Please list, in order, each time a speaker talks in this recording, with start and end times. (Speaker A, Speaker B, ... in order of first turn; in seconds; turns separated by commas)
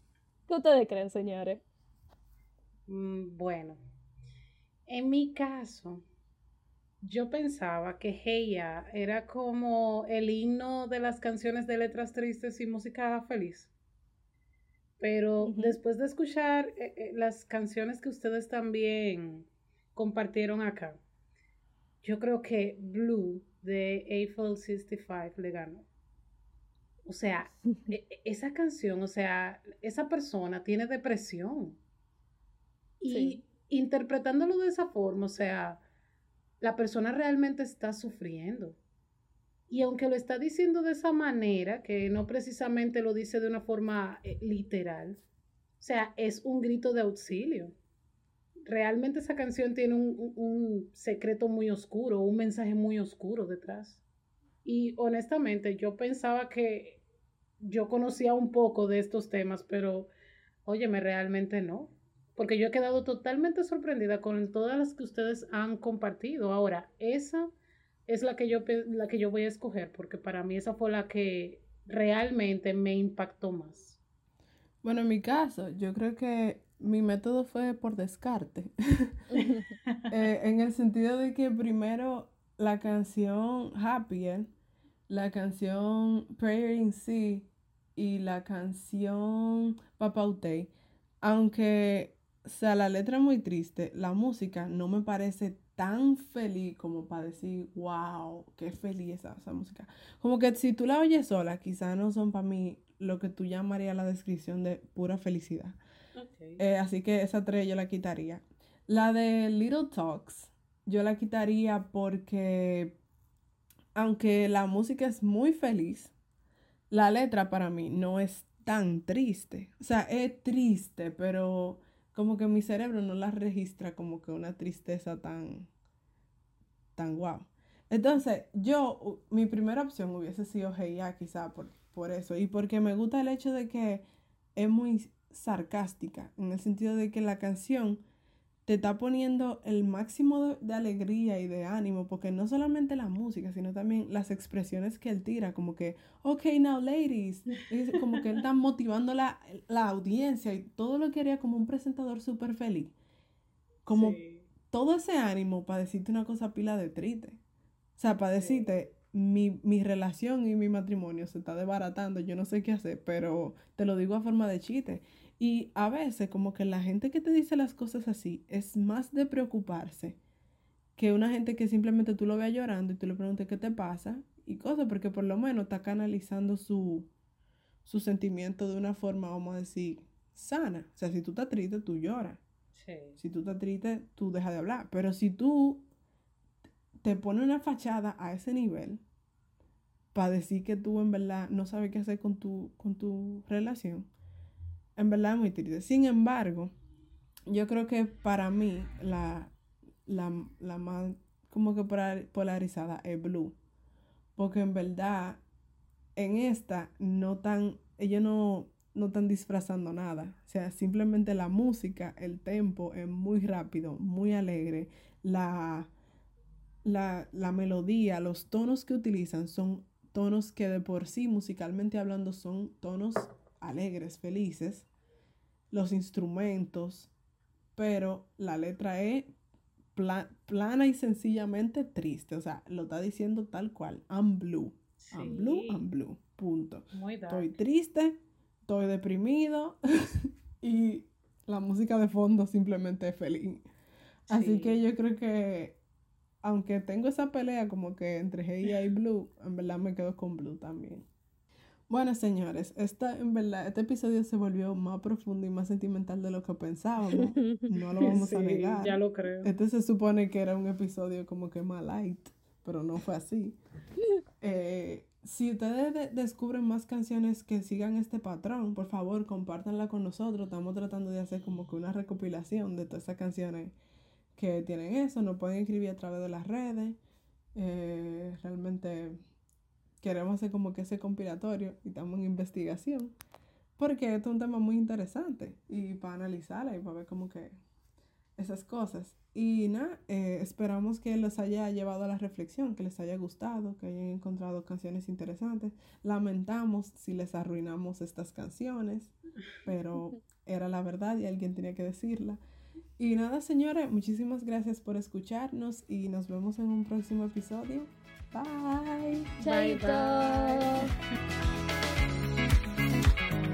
Speaker A: 0.5-1.6, Speaker B: 2.9-3.8, Speaker B: 4.9-6.0, Speaker B: 7.0-13.7, Speaker B: 15.0-21.0, Speaker A: 15.4-15.7, Speaker B: 22.0-25.9, Speaker B: 27.0-31.8, Speaker B: 33.0-35.8, Speaker A: 33.1-33.4, Speaker B: 36.6-38.8, Speaker B: 39.7-45.2, Speaker B: 45.8-47.8, Speaker B: 48.7-54.0, Speaker B: 54.6-57.0, Speaker B: 57.6-60.1, Speaker B: 60.6-67.5, Speaker B: 68.1-74.0, Speaker C: 74.8-79.1, Speaker A: 79.3-79.8, Speaker B: 79.4-80.0, Speaker C: 80.1-84.5, Speaker C: 85.1-105.8, Speaker B: 106.2-106.6, Speaker C: 106.6-113.0, Speaker C: 114.0-116.1, Speaker C: 116.9-125.7, Speaker C: 127.0-138.0, Speaker C: 138.7-152.9, Speaker C: 153.8-157.4, Speaker B: 153.9-154.4, Speaker C: 158.0-170.2, Speaker B: 158.4-158.7, Speaker C: 171.0-177.1, Speaker C: 177.8-182.4, Speaker B: 182.8-183.2, Speaker C: 183.2-185.8, Speaker C: 187.0-189.0, Speaker C: 190.1-194.1, Speaker C: 195.0-196.7, Speaker C: 197.5-199.5, Speaker C: 200.1-203.6, Speaker C: 204.4-205.4, Speaker C: 206.2-215.9, Speaker C: 216.8-224.9, Speaker C: 225.7-227.1, Speaker C: 227.8-229.3, Speaker C: 229.9-243.6, Speaker B: 235.0-235.8, Speaker B: 236.9-237.5, Speaker B: 244.3-244.8, Speaker C: 244.3-245.8, Speaker C: 246.4-251.1, Speaker C: 251.9-263.6, Speaker B: 258.0-259.5, Speaker C: 264.4-273.8, Speaker C: 274.4-277.0, Speaker C: 277.6-279.2, Speaker C: 280.0-283.1, Speaker C: 283.8-287.6, Speaker C: 288.4-299.1, Speaker C: 299.6-302.4, Speaker C: 303.0-309.4, Speaker B: 309.4-310.9, Speaker A: 309.4-310.9